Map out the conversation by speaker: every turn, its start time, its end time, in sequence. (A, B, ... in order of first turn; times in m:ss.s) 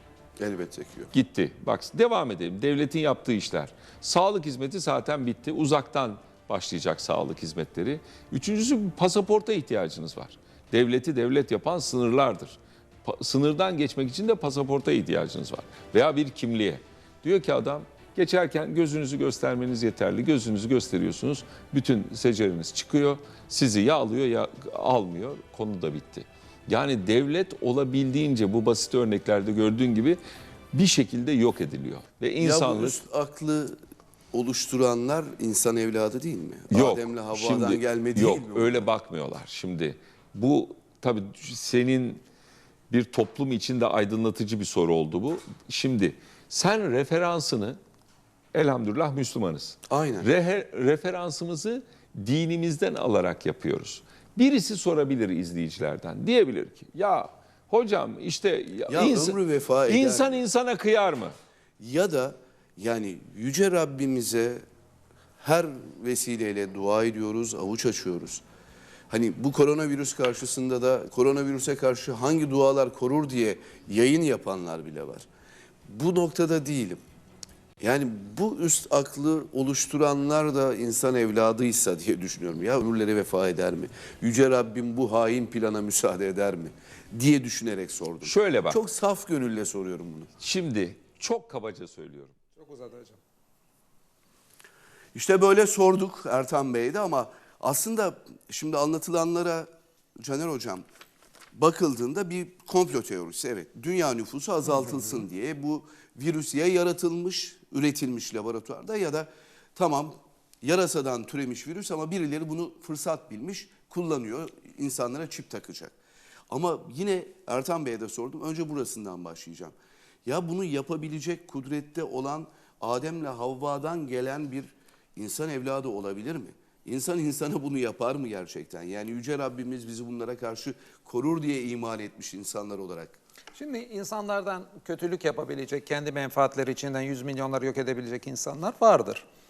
0:00.4-0:01.1 A
0:01.1-0:30.2 B
0:30.7-0:33.0 B
0:32.4-0:33.8 A
0:34.3-0:38.9 A
0:36.7-0:42.2 B
0:42.9-0:47.8 B
0:48.5-1:01.3 B
0:49.9-0:50.3 A
0:58.9-1:00.4 A
1:01.8-1:04.6 A
1:05.4-1:08.4 A
1:09.1-1:15.3 A
1:15.9-1:17.0 A
1:17.8-1:30.3 A
1:28.2-1:28.8 B
1:30.4-1:32.4 B
1:32.6-1:33.2 C
1:35.2-1:39.7 A
1:40.2-1:40.8 A
1:41.6-1:55.9 A
1:56.5-1:59.7 A
2:00.2-2:13.2 A
2:13.6-2:19.2 C